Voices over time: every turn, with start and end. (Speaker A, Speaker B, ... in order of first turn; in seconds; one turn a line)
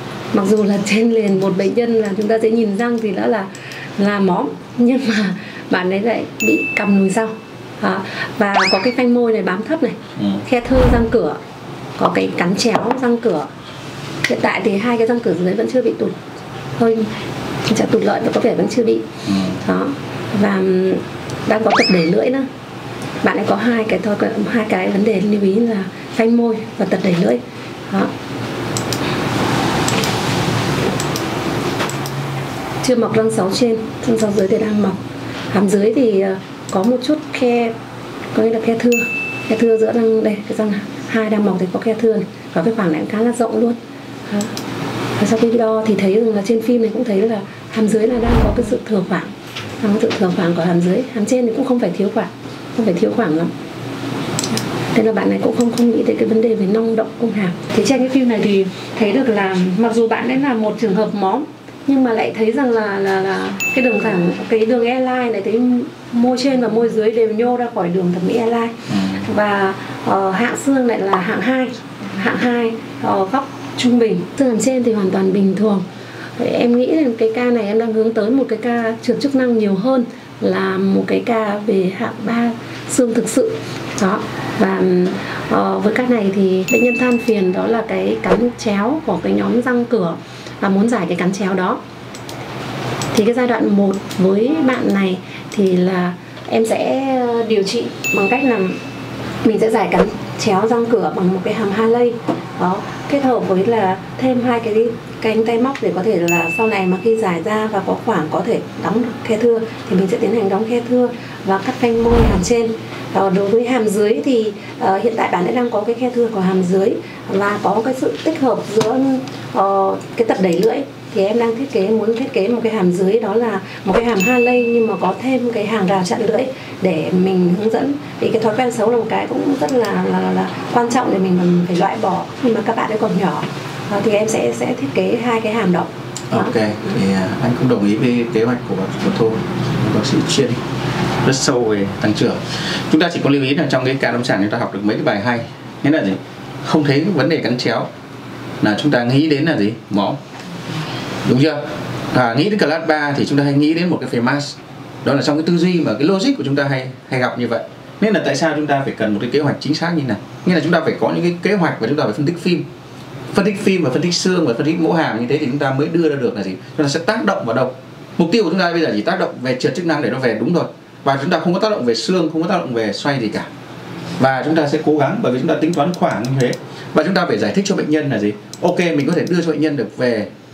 Speaker A: 0.3-11.4
Speaker B: 10.2-10.4
Speaker A: 12.0-13.5
Speaker A: 14.2-16.1
Speaker A: 16.8-17.1
Speaker A: 17.7-19.1
Speaker B: 19.2-19.6
Speaker A: 19.6-22.5
Speaker A: 23.2-28.1
Speaker A: 32.8-35.0
Speaker A: 35.5-37.7
Speaker A: 38.3-44.5
Speaker A: 45.2-53.5
Speaker A: 54.9-75.8
Speaker B: 68.9-69.2
Speaker A: 76.4-91.8
Speaker A: 93.1-98.8
Speaker A: 99.4-136.5
Speaker B: 136.3-140.6
Speaker B: 141.2-147.9
Speaker B: 148.6-150.2
Speaker B: 151.2-162.6
Speaker B: 163.3-173.5
Speaker B: 174.2-180.3